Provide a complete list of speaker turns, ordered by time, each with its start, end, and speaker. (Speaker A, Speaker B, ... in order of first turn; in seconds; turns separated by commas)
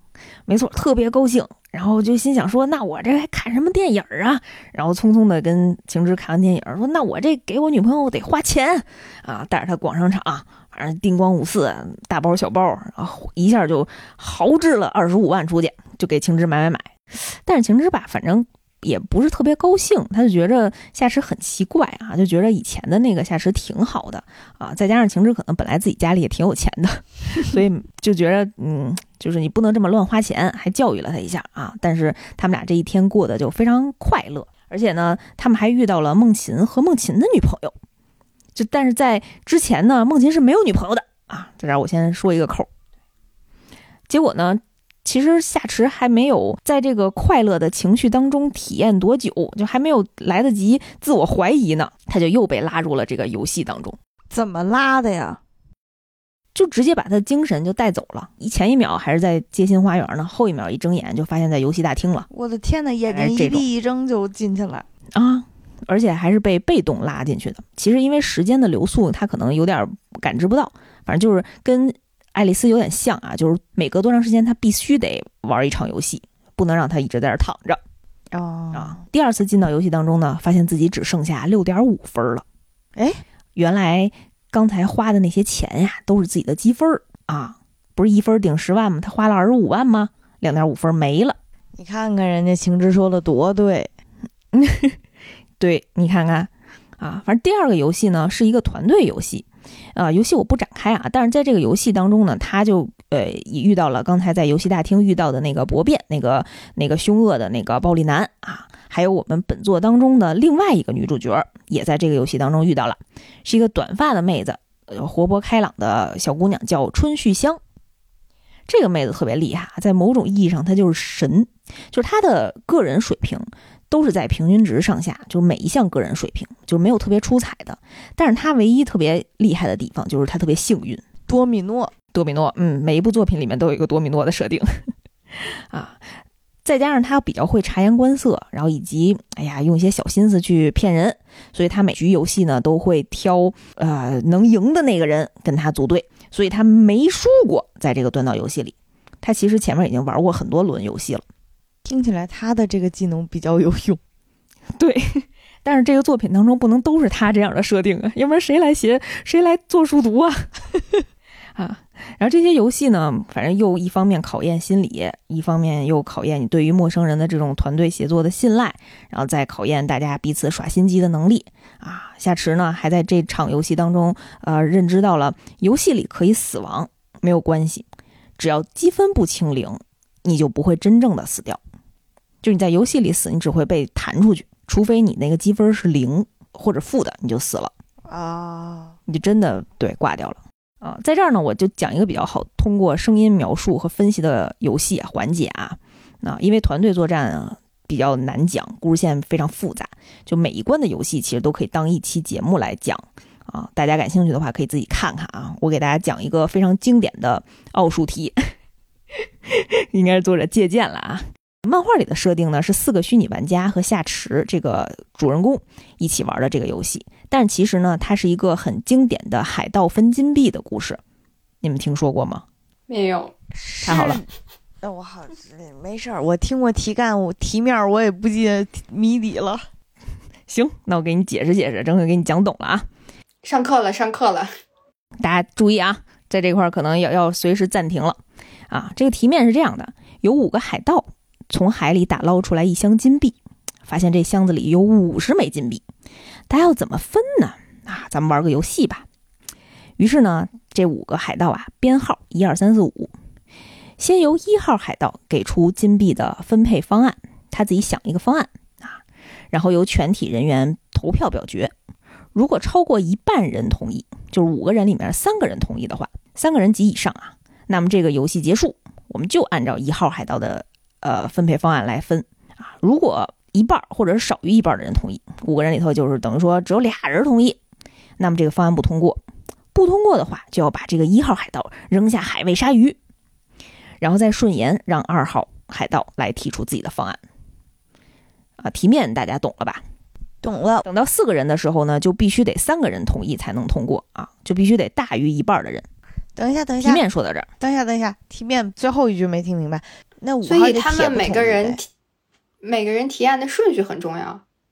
Speaker A: 0.5-37.7, Speaker A: 38.5-42.7, Speaker A: 44.1-54.0, Speaker B: 54.3-55.4, Speaker A: 56.5-62.3, Speaker B: 62.3-64.9, Speaker A: 63.1-63.6, Speaker A: 65.1-77.8, Speaker B: 78.3-79.0, Speaker A: 78.7-82.4, Speaker B: 83.0-83.2, Speaker A: 83.5-91.3, Speaker B: 91.8-93.9, Speaker A: 94.5-95.0, Speaker A: 95.6-117.6, Speaker A: 118.7-131.0, Speaker B: 131.3-131.9, Speaker A: 132.1-136.0, Speaker A: 136.6-151.2, Speaker B: 151.8-154.0, Speaker A: 154.8-160.5, Speaker A: 161.6-177.8, Speaker A: 178.4-181.6, Speaker A: 182.4-187.7, Speaker B: 188.1-188.9, Speaker A: 189.1-208.3, Speaker A: 209.4-221.0, Speaker A: 221.6-222.4, Speaker C: 222.9-223.3, Speaker B: 223.6-224.2, Speaker A: 223.8-224.2, Speaker B: 224.8-229.6, Speaker A: 230.5-232.9, Speaker C: 233.4-234.5, Speaker A: 235.2-245.8, Speaker A: 246.5-249.0, Speaker A: 250.0-253.1, Speaker A: 254.0-259.0, Speaker A: 259.5-261.7, Speaker A: 262.3-277.6, Speaker A: 278.2-279.2, Speaker A: 279.7-283.0, Speaker A: 284.0-287.2, Speaker A: 288.6-289.8, Speaker B: 290.4-290.9, Speaker A: 290.8-295.8, Speaker B: 296.4-297.0, Speaker A: 296.8-297.5, Speaker B: 297.6-301.8, Speaker C: 300.4-301.8, Speaker C: 302.6-304.4